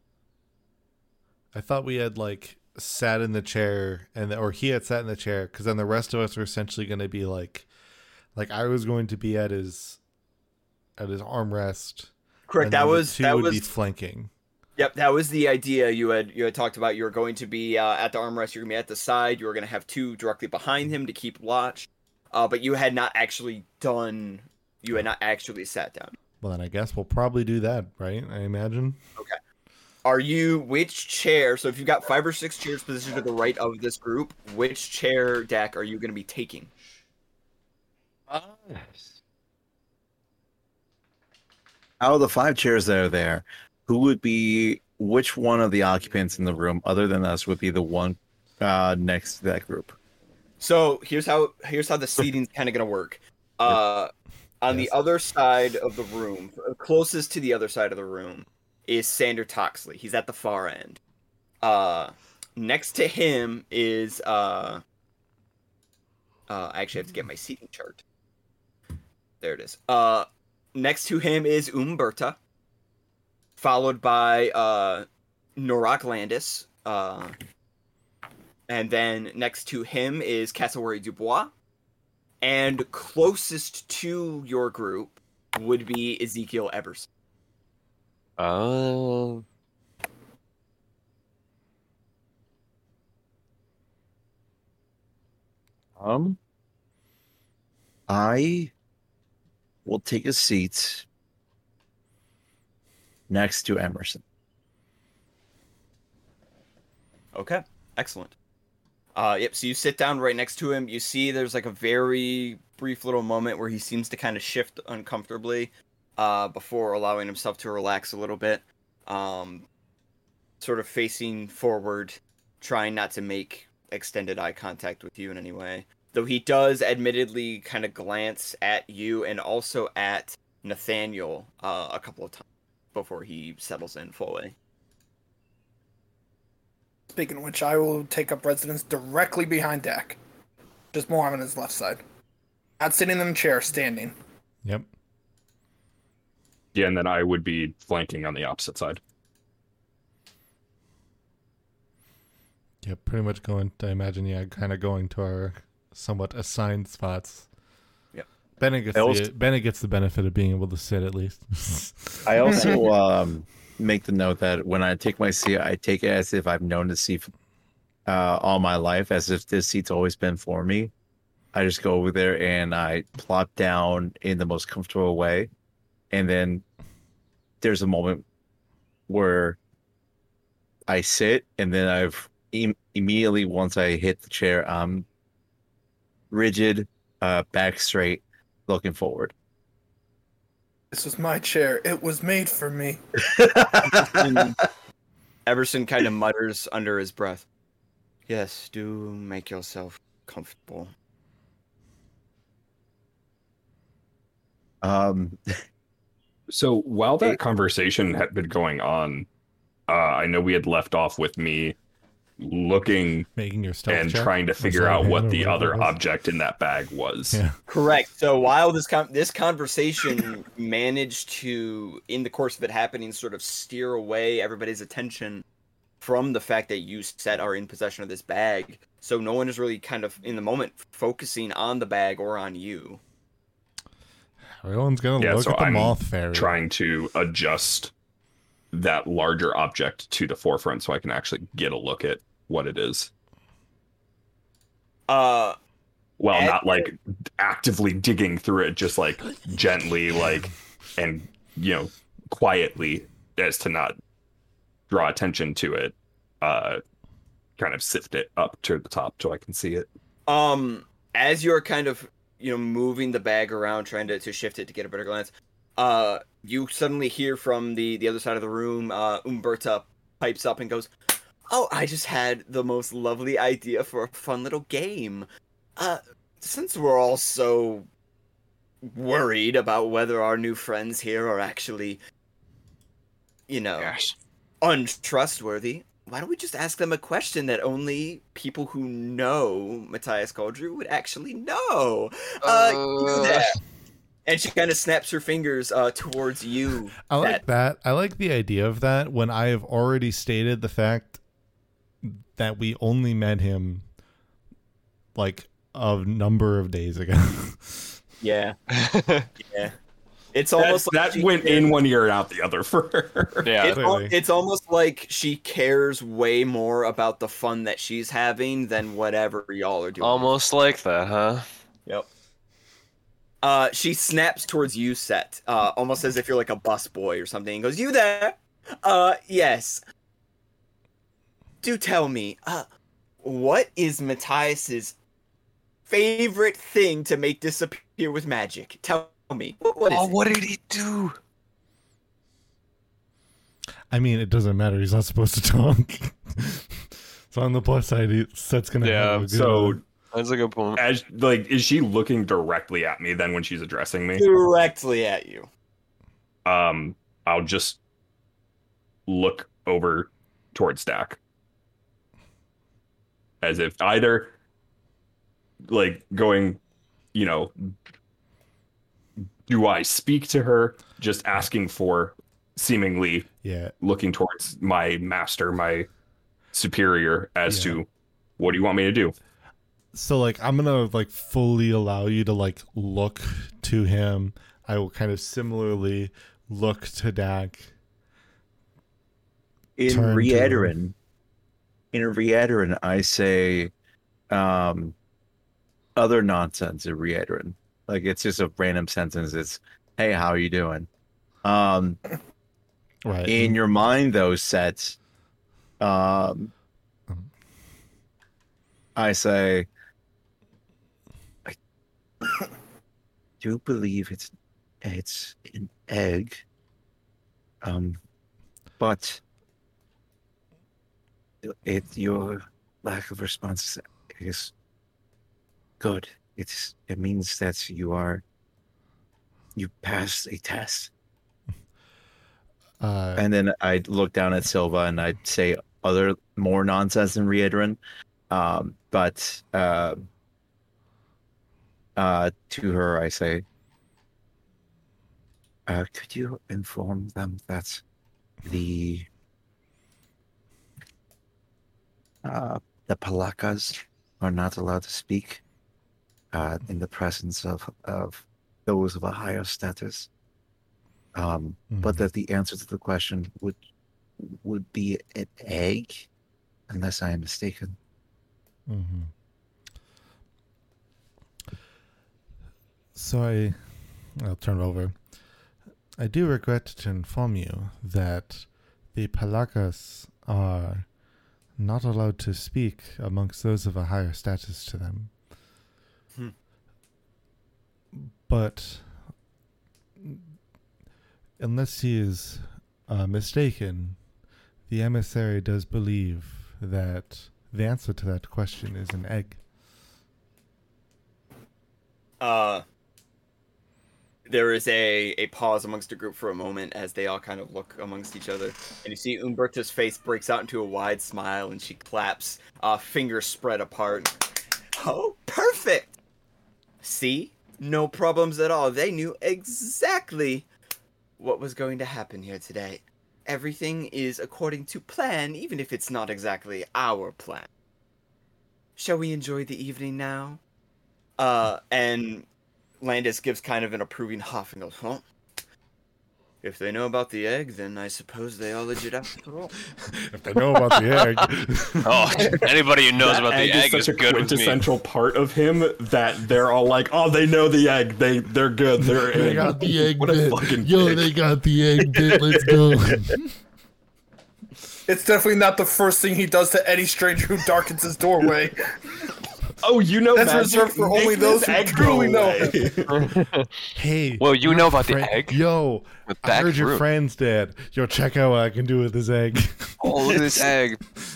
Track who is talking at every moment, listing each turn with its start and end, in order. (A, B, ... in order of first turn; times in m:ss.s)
0:01.5-0:07.7 A
0:08.4-0:10.0 A
0:11.0-0:14.3 A
0:12.5-0:13.7 B
0:14.8-0:26.2 B
0:26.4-0:29.0 A
0:30.0-0:36.7 B
0:38.3-0:39.1 C
0:42.0-0:50.0 C
0:50.6-1:01.0 B
1:01.6-1:04.8 B
1:06.5-1:08.0 B
1:09.4-1:12.4 B
1:13.6-1:17.3 B
1:18.7-1:21.5 B
1:22.4-1:27.1 B
1:28.4-1:29.4 D
1:36.0-1:36.4 C
1:38.1-1:38.7 C
1:39.8-1:41.0 C
1:43.3-1:44.2 C
1:47.3-1:48.4 B
1:49.2-1:59.7 B
2:00.6-2:14.6 B
2:17.1-2:20.2 E
2:20.9-2:22.0 E
2:22.8-2:24.2 E
2:26.7-2:29.0 F
2:32.8-2:37.5 A
2:38.6-2:42.7 A
2:39.0-2:39.3 C
2:42.2-2:47.3 C
2:48.1-2:50.9 C
2:51.5-2:55.5 C
2:56.1-2:56.6 C
2:57.6-2:58.2 C
2:59.1-2:59.6 C
3:00.9-3:05.1 C
3:06.3-3:09.3 C
3:10.9-3:13.0 E
3:13.4-3:14.4 C
3:14.0-3:14.6 B
3:15.5-3:17.5 B
3:18.3-3:20.9 B
3:24.8-3:25.4 C
3:26.5-3:29.3 F
3:29.9-3:31.8 F
3:32.4-3:33.3 F
3:33.4-3:36.0 A
3:33.9-3:37.4 F
3:37.7-3:45.4 B
3:46.0-3:53.0 B
3:54.5-3:56.6 A
3:55.2-3:57.9 F
3:58.7-4:03.1 F
4:05.1-4:05.6 B
4:06.2-4:14.0 F
4:06.3-4:06.9 B
4:14.9-4:16.8 F
4:17.6-4:19.9 F
4:20.3-4:30.9 B
4:31.5-4:35.3 B
4:35.8-4:37.9 B
4:38.8-4:42.0 B
4:43.5-4:44.0 B
4:43.8-4:44.2 D
4:44.6-4:53.5 B
4:52.4-4:53.6 D
4:54.3-4:57.4 B
4:57.1-5:01.2 A
5:02.0-5:03.9 A
5:05.2-5:08.0 A
5:08.2-5:08.6 B
5:08.7-5:09.3 D
5:09.4-5:09.8 B
5:10.3-5:11.7 B
5:10.6-5:13.5 F
5:13.4-5:13.8 D
5:13.6-5:20.3 B
5:13.7-5:14.2 A
5:20.0-5:21.4 D
5:23.4-5:29.8 B
5:31.6-5:32.7 B
5:33.2-5:35.0 B
5:35.9-5:40.2 B
5:39.9-5:41.2 D
5:43.9-5:49.8 A
5:48.8-5:49.5 D
5:49.3-5:49.8 F
5:50.1-5:50.8 D
5:50.8-5:54.3 F
5:54.2-5:55.5 B
5:56.4-5:57.8 F
5:59.1-6:01.2 F
6:03.4-6:04.3 F
6:05.6-6:06.6 F
6:07.1-6:07.6 F
6:09.5-6:13.3 F
6:13.4-6:13.7 A
6:13.8-6:15.9 F
6:16.5-6:17.9 F
6:17.5-6:17.8 A
6:18.4-6:19.2 F
6:19.9-6:27.7 A
6:29.8-6:31.0 C
6:29.9-6:30.8 A
6:31.9-6:33.7 C
6:34.3-6:35.0 C
6:36.0-6:40.9 C
6:41.4-6:42.0 C
6:43.0-6:43.6 A
6:43.3-6:45.0 C
6:45.8-6:46.5 C
6:49.0-6:49.7 C
6:53.4-6:56.4 C
6:57.6-6:58.0 C
6:58.8-6:59.2 C
7:01.4-7:04.5 C
7:05.8-7:08.2 C
7:09.6-7:10.9 C
7:12.8-7:13.2 A
7:13.2-7:17.8 C
7:18.3-7:20.1 C
7:22.0-7:23.4 C
7:25.7-7:27.8 C
7:28.4-7:29.1 C
7:32.2-7:35.4 C
7:36.3-7:40.1 C
7:41.2-7:43.6 C
7:41.7-7:42.1 A
7:44.2-7:46.1 C
7:46.7-7:47.8 C
7:48.7-7:49.1 A
7:53.0-7:55.1 A
7:56.0-8:00.9 A
8:01.6-8:05.2 A
8:07.9-8:09.2 A
8:10.0-8:10.3 A
8:11.4-8:14.0 A
8:14.7-8:19.4 A
8:22.2-8:22.6 B
8:24.3-8:34.2 B
8:34.8-8:35.9 B
8:36.8-8:40.5 B
8:41.2-8:47.5 B
8:48.8-8:50.4 B
8:51.2-8:52.3 B
8:52.8-8:55.1 B
8:56.4-8:59.5 B
9:00.1-9:02.5 A
9:01.0-9:01.2 D
9:01.8-9:04.6 D
9:03.1-9:11.1 F
9:08.8-9:13.4 A
9:11.8-9:12.5 F
9:14.9-9:18.8 E
9:19.6-9:22.8 F
9:20.1-9:22.8 E
9:21.7-9:22.6 B
9:22.9-9:23.5 D
9:23.8-9:30.5 A
9:24.2-9:25.4 D
9:26.0-9:26.8 D
9:29.8-9:30.8 D